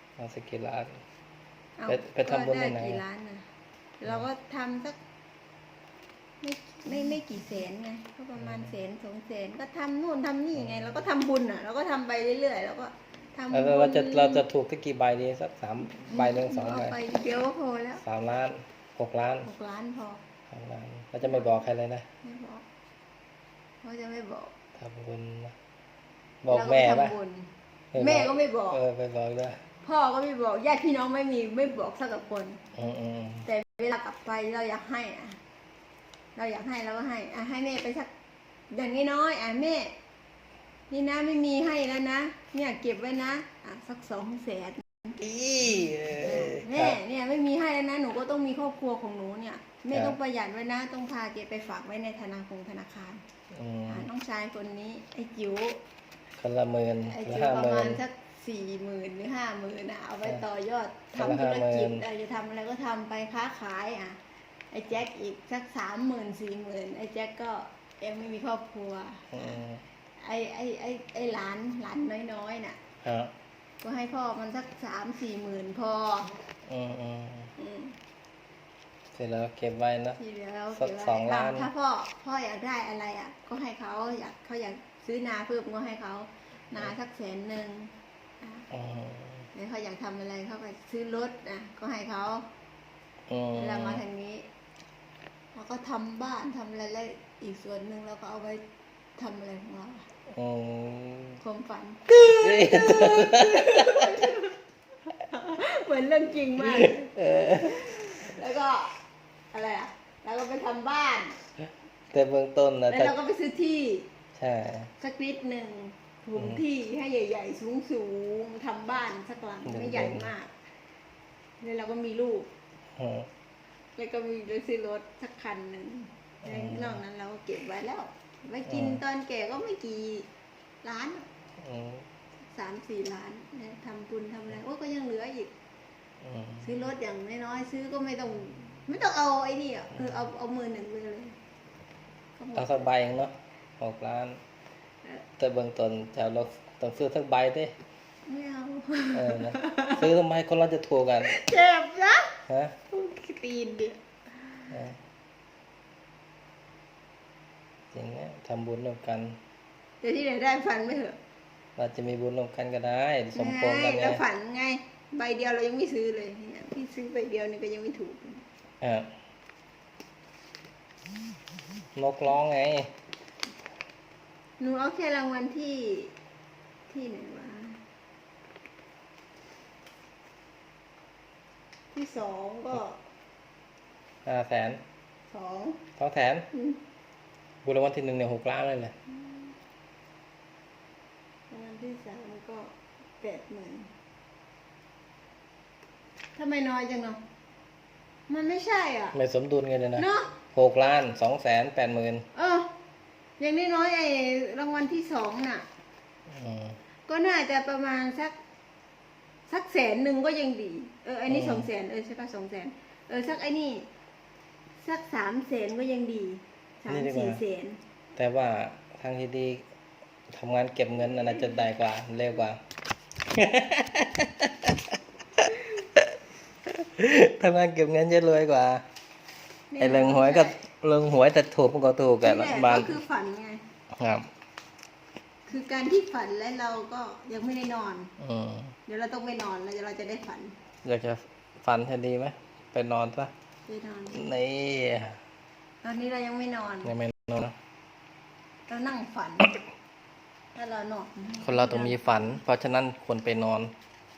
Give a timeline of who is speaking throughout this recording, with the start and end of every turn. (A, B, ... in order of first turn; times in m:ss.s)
0:00.2-0:01.0 A
0:01.8-0:03.4 B
0:01.9-0:03.0 A
0:04.0-0:05.0 B
0:06.4-0:14.4 B
0:08.4-0:08.7 A
0:10.6-0:11.0 A
0:13.5-0:17.0 A
0:16.1-0:18.0 B
0:18.0-0:19.5 A
0:19.4-0:20.2 B
0:20.5-0:22.0 A
0:21.2-0:21.6 B
0:22.2-0:22.6 B
0:23.8-0:24.5 B
0:24.8-0:25.6 A
0:26.4-0:27.2 A
0:26.5-0:28.8 B
0:27.9-0:29.6 A
0:29.8-0:32.6 B
0:32.8-0:33.5 A
0:33.4-0:35.4 B
0:36.4-0:38.1 B
0:38.7-0:39.9 B
0:40.9-0:45.2 B
0:45.2-0:47.0 A
0:46.1-0:53.2 B
0:49.9-0:50.2 A
0:53.5-0:54.1 A
0:53.9-0:55.8 B
0:56.4-0:58.0 A
0:57.1-1:04.2 B
1:01.2-1:02.0 A
1:04.7-1:09.6 B
1:09.3-1:09.8 A
1:10.2-1:12.8 B
1:13.0-1:13.3 A
1:13.8-1:16.3 B
1:16.7-1:17.5 A
1:17.6-1:18.0 B
1:19.1-1:20.2 A
1:20.2-1:28.7 B
1:20.7-1:21.7 A
1:28.7-1:29.5 A
1:29.5-1:32.5 B
1:33.3-1:34.0 A
1:33.6-1:34.5 B
1:35.5-1:38.6 B
1:39.2-1:40.1 B
1:40.3-1:41.4 A
1:41.4-1:44.6 B
1:42.1-1:44.3 A
1:45.1-1:49.0 B
1:46.6-1:48.0 A
1:49.5-1:51.4 B
1:52.1-1:53.2 A
1:52.9-1:54.1 B
1:54.4-1:54.9 A
1:55.0-2:00.5 B
1:56.4-1:56.6 A
1:59.7-2:00.3 A
2:01.6-2:02.5 B
2:03.0-2:03.3 A
2:04.0-2:10.3 B
2:06.5-2:07.0 A
2:08.7-2:09.0 A
2:10.8-2:11.3 B
2:11.6-2:12.0 A
2:12.5-2:15.5 B
2:16.2-2:16.7 A
2:16.6-2:21.4 B
2:22.4-2:22.9 B
2:22.6-2:24.4 A
2:25.4-2:27.8 A
2:28.3-2:30.0 B
2:29.1-2:31.4 A
2:31.2-2:32.4 B
2:32.5-2:32.8 A
2:32.9-2:34.0 B
2:34.7-2:35.0 A
2:37.9-2:39.4 A
2:40.0-2:41.2 B
2:41.8-2:44.2 A
2:43.4-2:48.4 B
2:48.8-2:49.1 A
2:52.0-2:52.9 A
2:54.6-2:56.1 B
2:56.9-2:57.8 B
3:01.9-3:03.0 B
3:04.2-3:04.8 A
3:05.3-3:05.8 B
3:06.0-3:06.5 A
3:06.5-3:06.8 B
3:07.6-3:08.9 A
3:09.1-3:09.5 B
3:11.5-3:13.9 B
3:16.4-3:17.2 B
3:18.3-3:19.2 B
3:19.1-3:22.3 A
3:20.0-3:20.3 B
3:22.4-3:22.7 B
3:23.4-3:25.6 B
3:26.3-3:26.8 A
3:27.1-3:28.4 B
3:29.5-3:33.9 B
3:31.3-3:31.7 A
3:34.8-3:37.8 B
3:36.9-3:37.4 A
3:38.2-3:39.6 A
3:40.3-3:42.6 A
3:43.3-3:46.1 A
3:46.7-3:48.8 A
3:49.7-3:50.6 B
3:49.8-3:53.0 A
3:52.2-3:53.6 B
3:54.0-3:54.3 A
3:55.5-3:58.1 B
3:58.2-3:58.7 A
3:58.9-4:00.6 B
4:00.8-4:03.3 A
4:03.7-4:04.2 B
4:04.1-4:05.2 A
4:05.8-4:06.9 B
4:06.8-4:07.6 A
4:08.7-4:09.6 B
4:10.6-4:12.1 B
4:11.4-4:13.7 A